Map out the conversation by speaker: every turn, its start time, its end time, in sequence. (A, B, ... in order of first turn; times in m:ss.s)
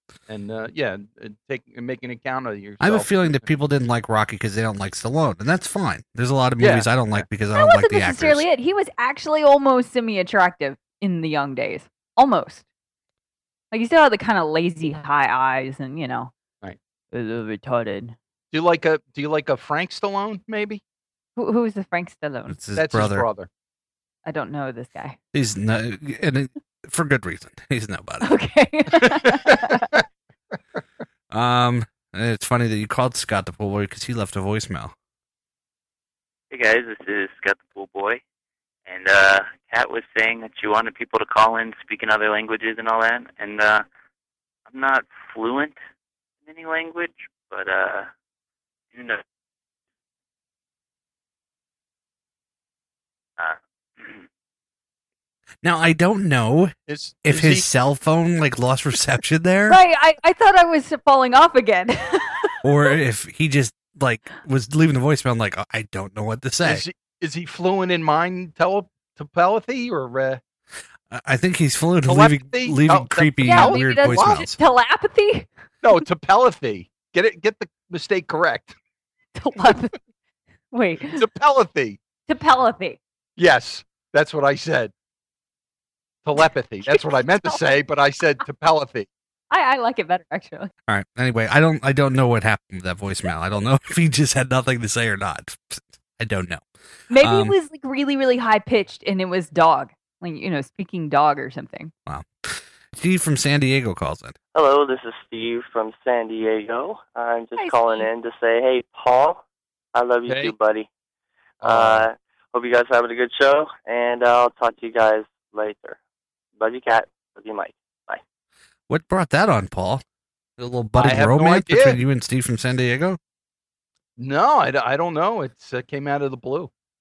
0:00.3-0:03.4 A
0:02.8-0:08.4 B
0:06.6-0:07.3 A
0:07.6-0:12.7 C
0:13.7-0:16.3 C
0:17.1-0:18.2 C
0:18.5-0:20.8 A
0:21.4-0:22.6 C
0:22.5-0:23.3 B
0:22.8-0:23.5 A
0:24.3-0:25.2 C
0:25.3-0:28.3 B
0:28.2-0:29.9 C
0:29.2-0:30.0 A
0:31.3-0:34.9 B
0:36.5-0:38.2 D
0:38.9-0:43.8 D
0:44.7-0:45.8 D
0:46.5-0:48.1 D
0:48.9-0:49.2 D
0:55.6-0:59.8 B
0:56.9-0:57.7 A
0:59.7-1:02.5 C
1:02.6-1:06.8 B
1:06.6-1:10.4 A
1:11.1-1:14.6 B
1:12.1-1:14.4 A
1:13.4-1:15.5 C
1:15.8-1:18.8 A
1:19.4-1:20.0 C
1:20.7-1:21.2 C
1:21.0-1:22.0 A
1:22.3-1:23.0 C
1:23.4-1:24.9 A
1:26.2-1:29.1 A
1:26.9-1:27.6 C
1:29.5-1:30.7 C
1:30.9-1:36.6 B
1:37.1-1:41.9 C
1:37.2-1:37.6 B
1:42.1-1:44.4 B
1:44.5-1:49.4 E
1:47.6-1:48.1 C
1:50.0-1:50.9 E
1:50.3-1:50.6 A
1:51.6-1:52.1 A
1:51.6-1:56.0 E
1:56.6-1:58.2 E
1:58.9-2:00.0 B
2:00.6-2:03.2 B
2:01.0-2:02.0 A
2:04.2-2:06.7 A